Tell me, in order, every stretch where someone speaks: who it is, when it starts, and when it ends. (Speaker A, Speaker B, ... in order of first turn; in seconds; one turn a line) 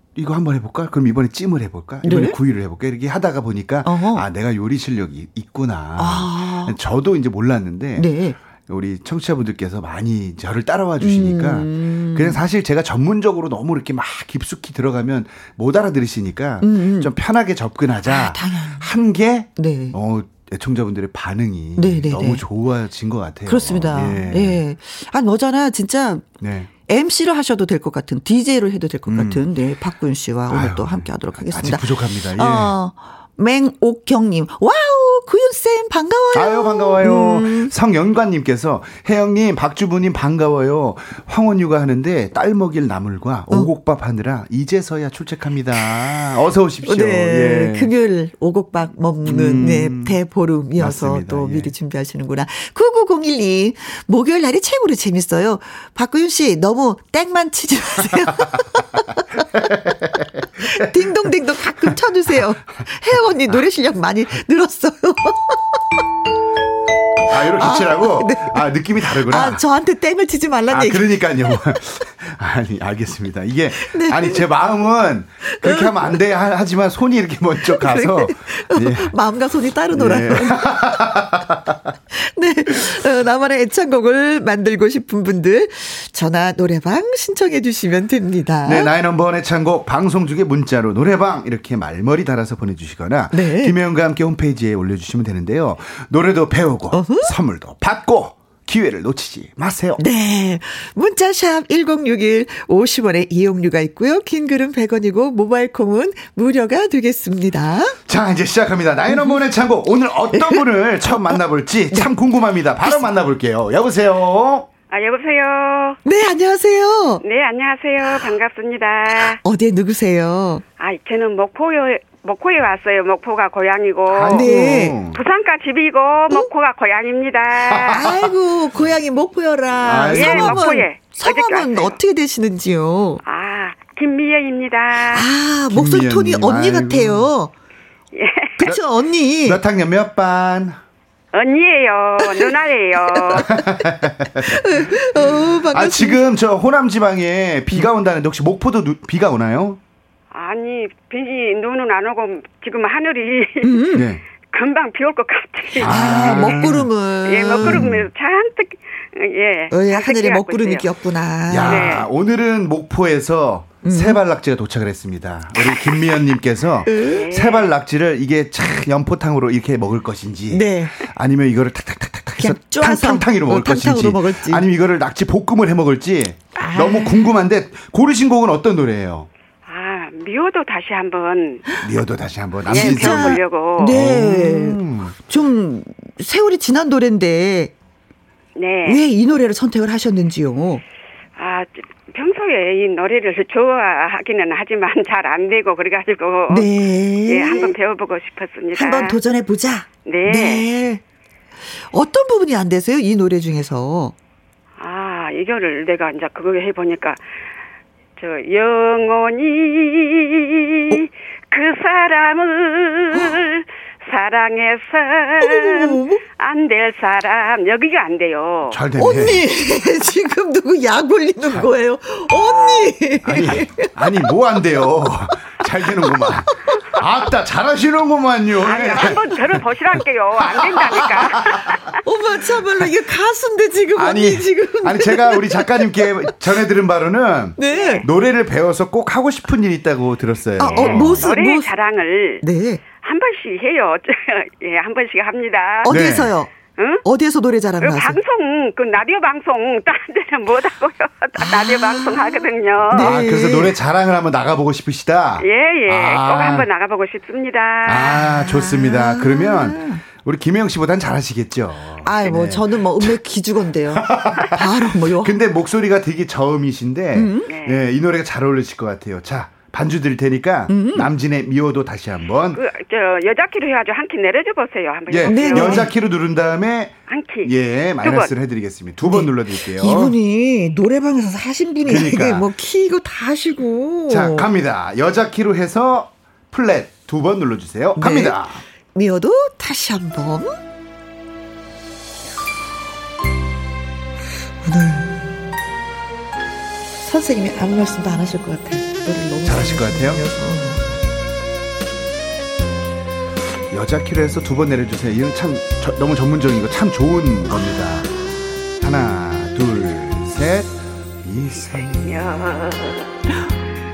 Speaker A: 0.1-24.6
Speaker B: 2.0-2.4
Speaker B: 3.8-4.2
Speaker B: 6.0-6.8
Speaker B: 8.0-8.3
Speaker B: 11.0-12.4
Speaker B: 16.6-17.1
Speaker B: 18.0-18.9
Speaker B: 19.6-19.9
Speaker B: 21.8-22.4
Speaker B: 23.4-26.3
Speaker A: 26.4-26.7
Speaker B: 26.9-37.7
Speaker A: 29.1-29.4
Speaker A: 30.5-32.7
Speaker A: 36.3-47.9
Speaker B: 46.8-59.7
Speaker A: 49.2-50.2
Speaker A: 50.8-51.7
Speaker A: 59.5-61.3
Speaker B: 60.6-65.8
Speaker A: 67.3-69.6
Speaker B: 67.3-71.2
Speaker A: 70.7-79.1
Speaker B: 73.8-74.5
Speaker B: 75.4-76.2
Speaker B: 77.6-81.1
Speaker A: 79.9-81.8
Speaker B: 82.1-88.9
Speaker A: 88.6-100.0
Speaker B: 93.3-93.8
Speaker B: 96.9-97.3
Speaker B: 100.0-108.0
Speaker A: 108.1-114.7
Speaker B: 109.1-109.4
Speaker B: 110.3-110.6
Speaker C: 114.9-116.0
Speaker B: 116.0-117.2
Speaker C: 117.2-119.4
Speaker B: 119.3-120.6
Speaker C: 120.8-124.5
Speaker A: 124.1-125.2
Speaker B: 124.3-125.0
Speaker C: 125.1-128.1
Speaker A: 127.7-128.3
Speaker B: 127.9-133.2
Speaker A: 129.8-130.7
Speaker C: 130.1-131.9
Speaker C: 133.2-135.3
Speaker B: 135.1-137.5
Speaker A: 135.7-137.3
Speaker C: 138.1-138.5
Speaker B: 138.6-139.6
Speaker A: 139.4-140.8
Speaker C: 141.3-143.5
Speaker B: 142.2-142.5
Speaker B: 143.2-143.8
Speaker A: 143.3-149.8
Speaker B: 144.4-146.2
Speaker C: 150.3-153.8
Speaker B: 153.6-154.0
Speaker A: 153.9-154.2
Speaker C: 154.5-156.7
Speaker B: 155.8-157.9
Speaker A: 155.8-156.9
Speaker C: 157.2-160.9
Speaker A: 157.6-158.1
Speaker B: 159.7-162.0
Speaker A: 161.5-179.3
Speaker C: 161.7-162.1
Speaker B: 163.8-164.2
Speaker B: 165.6-166.2
Speaker B: 166.8-167.3
Speaker C: 167.1-167.7
Speaker B: 170.5-170.9
Speaker B: 172.4-174.7
Speaker B: 176.6-177.3
Speaker C: 179.7-181.6
Speaker A: 181.8-185.2
Speaker C: 182.7-184.0
Speaker B: 182.7-187.7
Speaker C: 188.6-189.0
Speaker B: 188.8-190.8
Speaker C: 191.4-196.7
Speaker B: 196.5-197.7
Speaker C: 197.3-199.2
Speaker B: 198.8-201.0
Speaker C: 200.1-200.6
Speaker B: 201.8-204.1
Speaker C: 204.8-207.2
Speaker C: 208.2-218.8
Speaker B: 213.1-213.4
Speaker B: 215.4-216.2
Speaker A: 218.7-219.4
Speaker B: 219.0-223.9
Speaker A: 223.2-229.7
Speaker B: 225.3-227.0
Speaker C: 228.6-232.0
Speaker A: 230.4-231.8
Speaker B: 232.0-236.3
Speaker A: 233.9-241.3
Speaker B: 237.6-238.1
Speaker C: 237.7-238.0
Speaker B: 240.6-241.7
Speaker C: 240.7-242.4
Speaker B: 242.4-242.8
Speaker C: 243.0-246.0
Speaker B: 245.8-246.5
Speaker A: 245.8-246.3
Speaker C: 246.8-247.0
Speaker B: 247.0-248.2
Speaker C: 247.8-253.1
Speaker B: 251.4-253.7
Speaker A: 252.9-256.7
Speaker C: 255.4-258.2
Speaker A: 257.9-263.2
Speaker B: 258.3-260.0
Speaker B: 262.0-265.4
Speaker A: 263.9-272.6
Speaker B: 267.1-267.5
Speaker C: 267.5-267.8
Speaker B: 270.7-271.1
Speaker C: 272.5-275.9
Speaker A: 275.1-280.1
Speaker B: 275.3-275.9
Speaker C: 277.1-278.3
Speaker B: 279.0-284.5
Speaker A: 281.9-282.5
Speaker A: 284.1-288.6
Speaker B: 287.9-288.4
Speaker B: 288.9-290.6
Speaker B: 294.6-295.4
Speaker B: 297.0-300.8
Speaker A: 299.4-300.2
Speaker A: 303.7-308.1
Speaker A: 308.8-312.1
Speaker C: 311.8-313.1